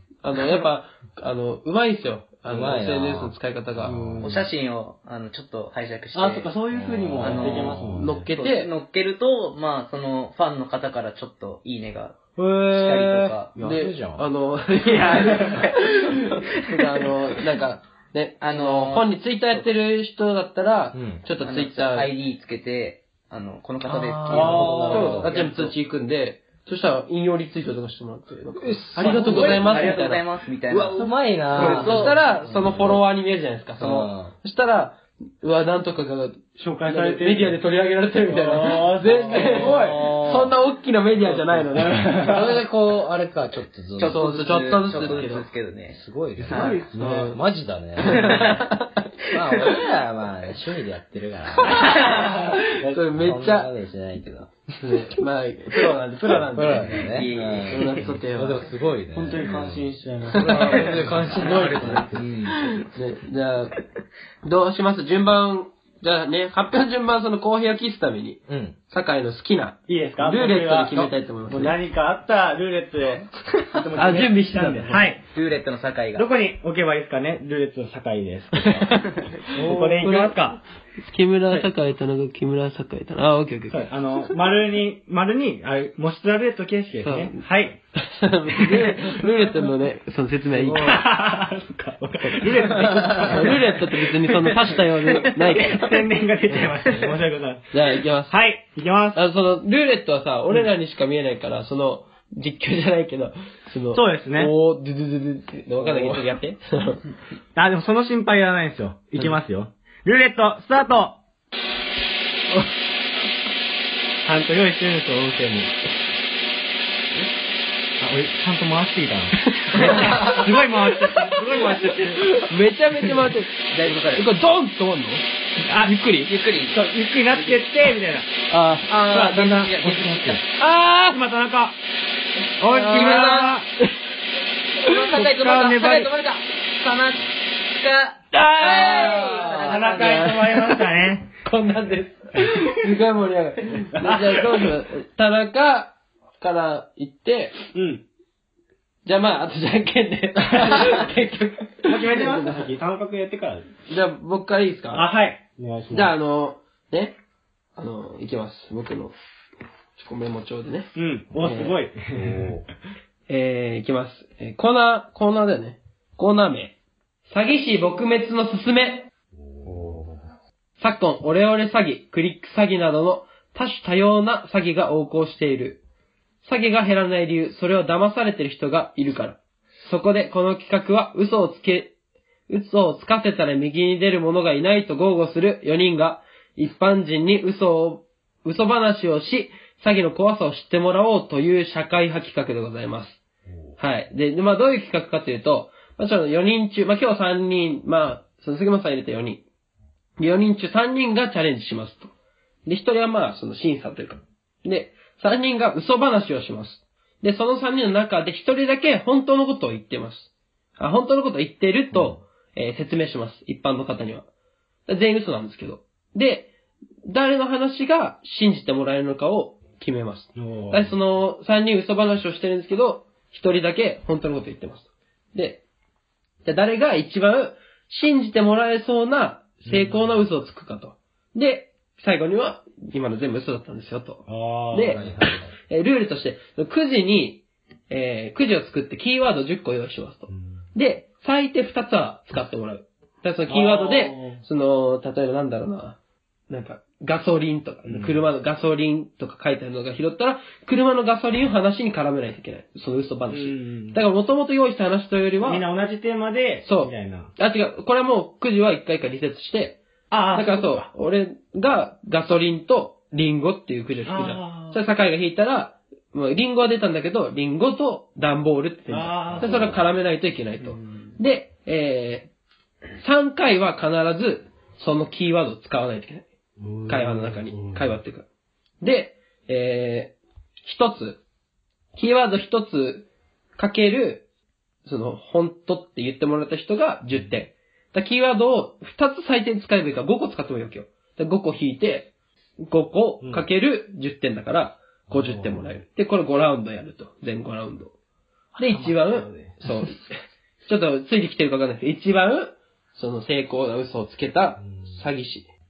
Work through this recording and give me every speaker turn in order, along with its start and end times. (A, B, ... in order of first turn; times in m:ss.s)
0:00.2-0:04.0 A
0:02.5-0:04.5 B
0:03.9-0:04.4 C
0:04.2-0:06.5 D
0:06.1-0:08.2 C
0:06.7-0:08.2 B
0:07.2-0:13.5 D
0:08.0-0:08.7 A
0:13.0-0:13.3 C
0:13.5-0:14.2 B
0:13.6-0:22.1 A
0:15.0-0:15.7 C
0:18.4-0:19.6 D
0:20.9-0:21.2 B
0:21.4-0:25.7 D
0:23.9-0:25.3 B
0:24.3-0:30.2 A
0:24.3-0:25.2 C
0:28.6-0:29.8 B
0:29.0-0:29.7 C
0:29.1-0:32.2 D
0:30.7-0:33.0 B
0:31.5-0:42.4 A
0:33.8-0:34.3 B
0:36.6-0:37.6 C
0:38.3-0:39.9 C
0:39.3-0:40.5 D
0:41.2-0:42.5 C
0:42.1-0:45.2 B
0:44.0-0:46.8 D
0:44.0-0:45.5 A
0:45.9-0:48.7 B
0:46.4-0:47.3 C
0:46.9-0:47.4 A
0:48.0-0:49.0 A
0:48.1-0:48.6 D
0:49.2-0:49.8 D
0:49.3-0:54.5 B
0:51.7-0:53.7 A
0:51.8-0:52.3 D
0:54.8-0:58.7 A
0:56.3-1:02.6 B
0:57.0-0:58.0 D
0:59.1-1:02.0 C
1:00.4-1:02.8 D
1:00.4-1:00.8 A
1:02.8-1:03.8 A
1:04.4-1:11.8 A
1:08.5-1:08.8 B
1:09.9-1:15.2 C
1:13.9-1:15.1 A
1:15.3-1:16.3 D
1:16.2-1:20.6 C
1:18.7-1:23.9 A
1:23.7-1:27.8 C
1:27.0-1:27.4 A
1:28.0-1:31.0 A
1:28.7-1:29.5 C
1:30.6-1:37.7 C
1:32.2-1:36.0 A
1:32.8-1:33.3 B
1:36.5-1:37.1 A
1:37.7-1:38.4 A
1:38.3-1:39.2 C
1:39.1-1:47.0 A
1:43.9-1:44.5 C
1:45.8-1:46.2 C
1:47.5-1:51.2 C
1:54.2-1:55.8 C
1:58.0-2:02.5 C
1:59.6-2:05.2 A
2:03.7-2:04.2 D
2:05.6-2:10.4 C
2:06.2-2:06.8 D
2:07.3-2:07.6 D
2:08.5-2:08.9 A
2:08.9-2:10.4 D
2:10.6-2:11.2 A
2:11.1-2:11.8 C
2:12.6-2:13.6 C
2:12.7-2:13.6 D
2:12.7-2:14.0 A
2:14.8-2:15.2 A
2:14.8-2:20.5 D
2:15.1-2:16.1 C
2:18.3-2:20.9 A
2:18.7-2:21.3 C
2:21.4-2:27.6 A
2:23.9-2:24.6 C
2:27.7-2:28.0 C
2:29.0-2:32.7 A
2:30.6-2:31.0 C
2:31.8-2:33.7 C
2:33.9-2:35.1 A
2:34.9-2:36.1 C
2:35.9-2:37.2 A
2:37.8-2:39.1 A
2:40.0-2:41.8 A
2:40.9-2:42.6 C
2:42.1-2:42.6 B
2:43.3-2:46.7 A
2:47.3-2:49.1 A
2:49.6-2:50.2 C
2:50.8-2:55.8 A
2:56.4-3:01.9 A
3:02.5-3:13.2 A
3:13.8-3:19.4 A
3:20.2-3:22.1 A
3:22.6-3:34.3 A
3:34.9-3:36.5 A
3:37.0-3:45.6 A
3:40.4-3:40.9 C
3:46.4-3:55.0 A
3:49.7-3:50.0 C
3:54.3-3:55.2 C
3:54.9-3:55.5 B
3:55.6-4:06.0 A
4:00.3-4:00.6 C
4:03.5-4:04.4 C
4:06.5-4:15.6 A
4:07.8-4:08.2 C
4:13.3-4:14.0 C
4:15.4-4:17.3 C
4:16.6-4:19.8 A
4:20.1-4:20.9 C
4:20.3-4:32.3 A
4:24.0-4:24.8 C
4:28.9-4:29.8 C
4:29.3-4:29.8 B
4:30.6-4:31.1 C
4:33.0-4:36.3 A
4:36.6-4:37.9 C
4:36.9-4:38.3 A
4:38.8-4:41.2 A
4:41.9-4:44.2 A
4:44.8-4:52.1 A
4:52.6-4:57.9 A
4:53.2-4:53.5 C
4:55.1-4:55.7 C
4:58.6-5:05.5 A
4:58.6-4:59.6 C